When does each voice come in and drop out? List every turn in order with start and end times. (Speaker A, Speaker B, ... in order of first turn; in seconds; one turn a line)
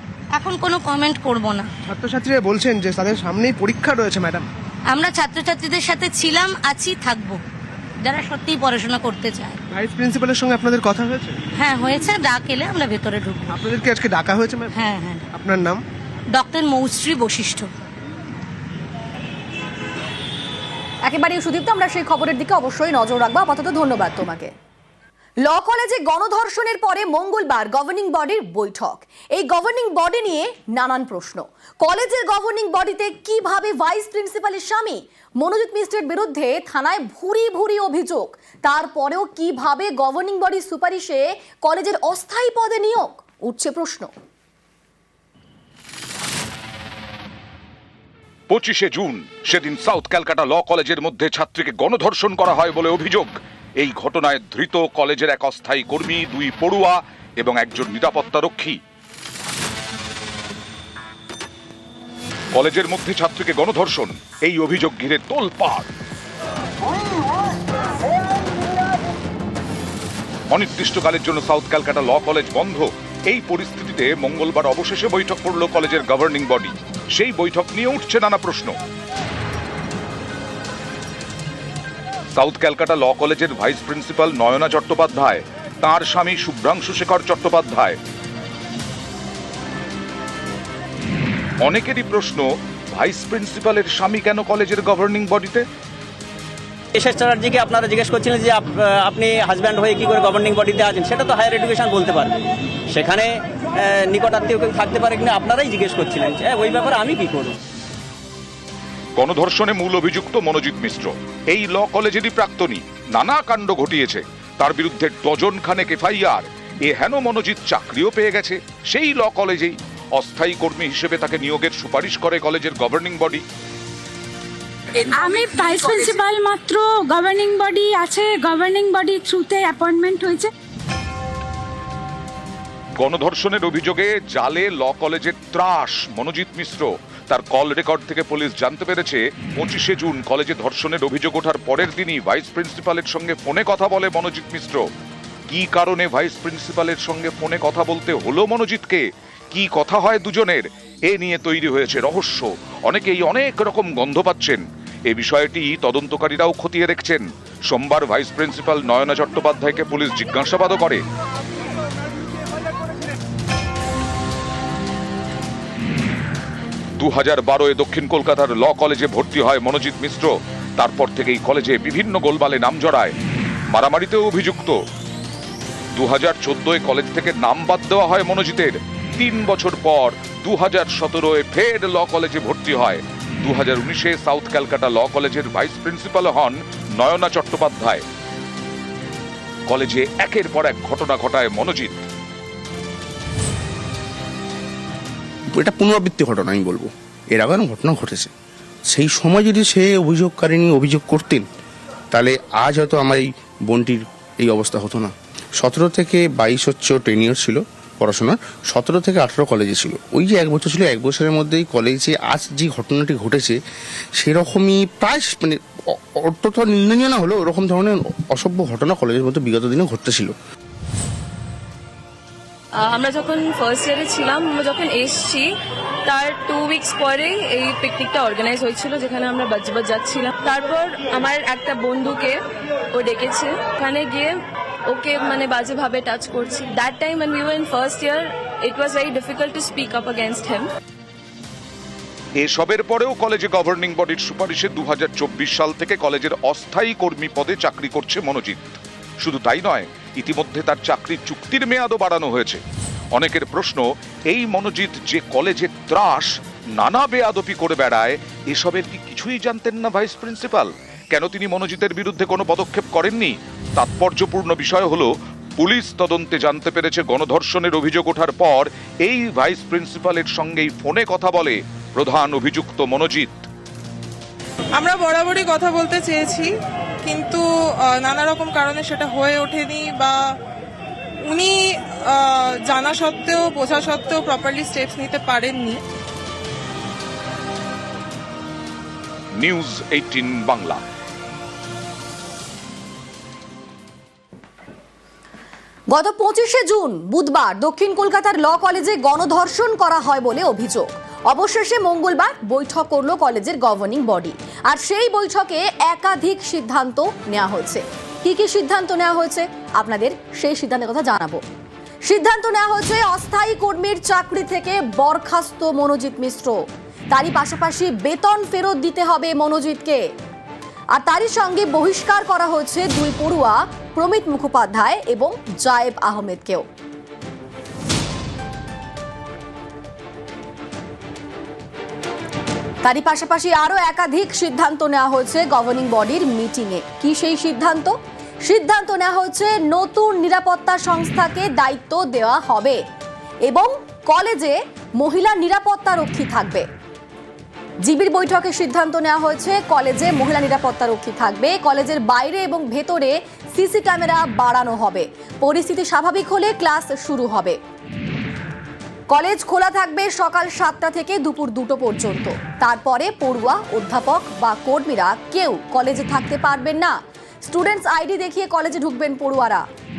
Speaker A: 0.3-1.7
Speaker B: 1.9-4.5
Speaker A: 4.9-7.4
Speaker A: 8.0-9.6
Speaker B: 9.7-11.3
Speaker A: 11.6-13.5
Speaker B: 13.5-15.8
Speaker A: 14.7-15.2
Speaker A: 16.3-17.7
Speaker C: 21.0-24.5
Speaker C: 25.4-44.1
Speaker D: 48.5-58.8
Speaker D: 62.5-65.9
Speaker D: 70.5-78.8
Speaker D: 82.3-88.0
Speaker D: 91.6-95.7
Speaker E: 97.0-102.4
Speaker E: 102.9-103.3
Speaker E: 103.8-107.5
Speaker D: 109.2-123.4
Speaker F: 125.0-130.5
Speaker D: 133.0-144.8
Speaker D: 145.5-161.0
Speaker D: 167.0-173.1
Speaker D: 173.7-174.8
Speaker D: 175.9-188.0
Speaker D: 189.7-192.0
Speaker G: 195.5-198.3
Speaker G: 198.9-201.4
Speaker G: 202.1-213.6
Speaker G: 214.2-220.3
Speaker H: 222.8-225.5
Speaker H: 226.1-232.4
Speaker H: 232.9-234.3
Speaker H: 234.9-240.7
Speaker D: 242.4-252.6
Speaker D: 253.1-273.4
Speaker I: 274.8-276.5
Speaker I: 277.0-280.2
Speaker I: 281.3-285.8
Speaker D: 289.4-290.8
Speaker C: 295.9-311.4
Speaker C: 312.0-316.5
Speaker C: 317.1-320.0
Speaker C: 321.0-326.6
Speaker C: 332.8-337.9
Speaker C: 338.4-342.8
Speaker C: 343.5-346.6
Speaker C: 347.8-357.6
Speaker C: 359.1-369.6